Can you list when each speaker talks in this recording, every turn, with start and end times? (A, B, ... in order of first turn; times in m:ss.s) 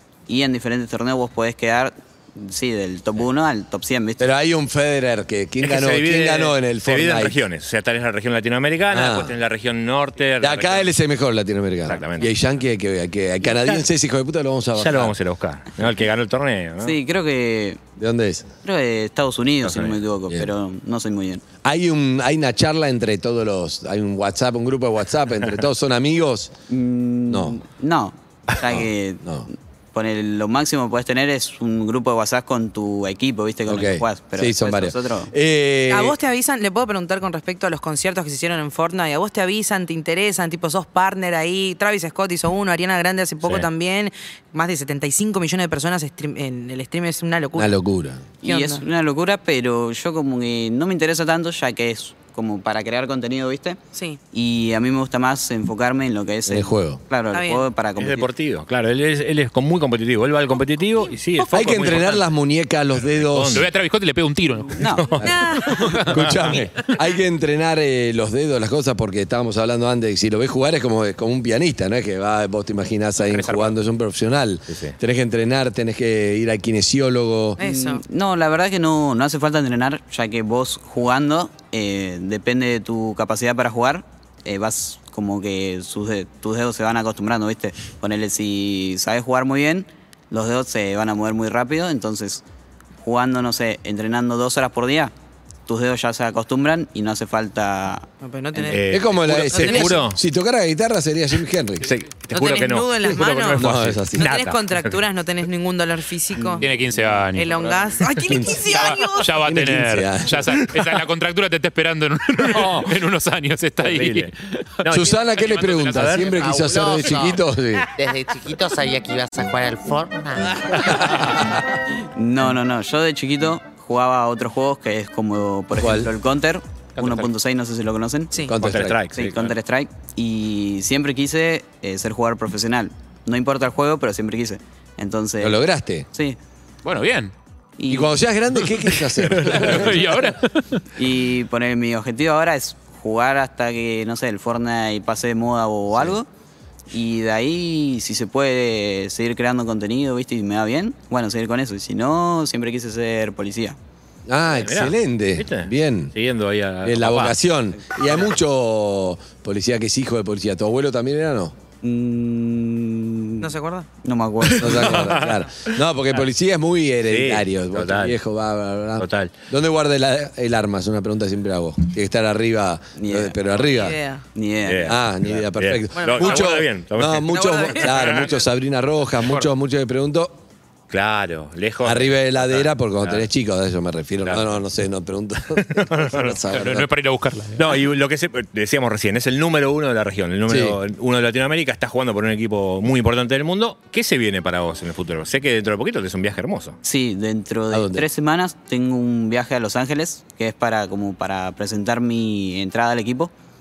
0:00.3-0:04.3 A
0:04.2-0:07.4 B
0:05.6-0:10.9 C
0:08.9-0:09.4 B
0:10.4-0:15.2 B
0:11.9-0:12.3 C
0:14.8-0:17.0 C
0:16.8-0:17.8 A
0:18.0-0:18.5 B
0:18.6-0:21.4 A
0:19.6-0:20.0 C
0:21.6-0:26.5 B
0:26.7-0:35.3 A
0:27.3-0:27.6 B
0:28.6-0:29.5 B
0:33.7-0:36.2 B
0:35.9-0:47.8 D
0:43.4-0:43.7 C
0:47.5-0:48.2 B
0:48.4-0:53.8 A
0:48.4-0:48.8 D
0:53.9-0:54.2 D
0:54.3-0:58.3 A
0:56.5-0:57.0 B
0:57.3-0:57.7 D
0:58.0-1:02.2 C
1:01.5-1:03.7 B
1:03.1-1:03.7 C
1:03.5-1:05.1 E
1:04.7-1:05.1 A
1:05.0-1:06.4 C
1:05.2-1:06.0 D
1:05.8-1:06.4 E
1:06.1-1:17.6 B
1:13.2-1:13.7 E
1:14.7-1:15.0 C
1:17.6-1:18.0 D
1:17.6-1:32.4 A
1:33.0-1:35.1 A
1:35.7-1:38.7 A
1:38.2-1:38.9 D
1:38.7-1:40.2 C
1:38.9-1:41.9 B
1:39.5-1:39.9 D
1:41.8-1:45.0 C
1:42.3-1:46.7 D
1:43.6-1:44.3 B
1:46.6-1:47.6 E
1:47.3-1:49.4 D
1:48.2-1:48.7 B
1:48.7-1:56.4 E
1:49.4-1:50.6 B
1:52.4-1:52.9 C
1:53.8-1:54.3 C
1:54.8-1:56.4 C
1:54.9-1:57.9 B
1:56.3-1:57.4 F
1:57.9-2:01.1 F
2:02.0-2:08.4 A
2:05.7-2:06.1 B
2:07.0-2:07.3 E
2:08.4-2:09.0 B
2:08.6-2:09.6 C
2:09.1-2:16.4 A
2:15.4-2:16.1 B
2:16.8-2:17.3 E
2:17.8-2:18.1 A
2:17.9-2:20.1 B
2:19.4-2:19.8 C
2:19.4-2:20.8 E
2:21.0-2:26.3 A
2:26.9-2:33.8 A
2:34.3-2:36.1 B
2:34.5-2:37.4 C
2:36.8-2:41.6 B
2:41.8-2:45.1 A
2:43.4-2:43.9 D
2:44.4-2:45.8 C
2:44.6-2:54.0 B
2:47.0-2:48.2 C
2:49.0-2:49.3 C
2:53.0-2:53.8 A
2:53.7-2:54.2 D
2:54.3-2:54.9 A
2:54.6-2:58.3 C
2:54.9-3:00.4 B
2:56.0-2:56.5 D
2:57.3-2:58.4 D
3:00.9-3:03.2 C
3:01.8-3:06.9 B
3:04.2-3:04.5 C
3:05.6-3:06.4 C
3:06.5-3:07.6 E
3:07.6-3:16.8 C
3:10.5-3:10.8 B
3:16.8-3:23.3 A
3:17.7-3:18.1 B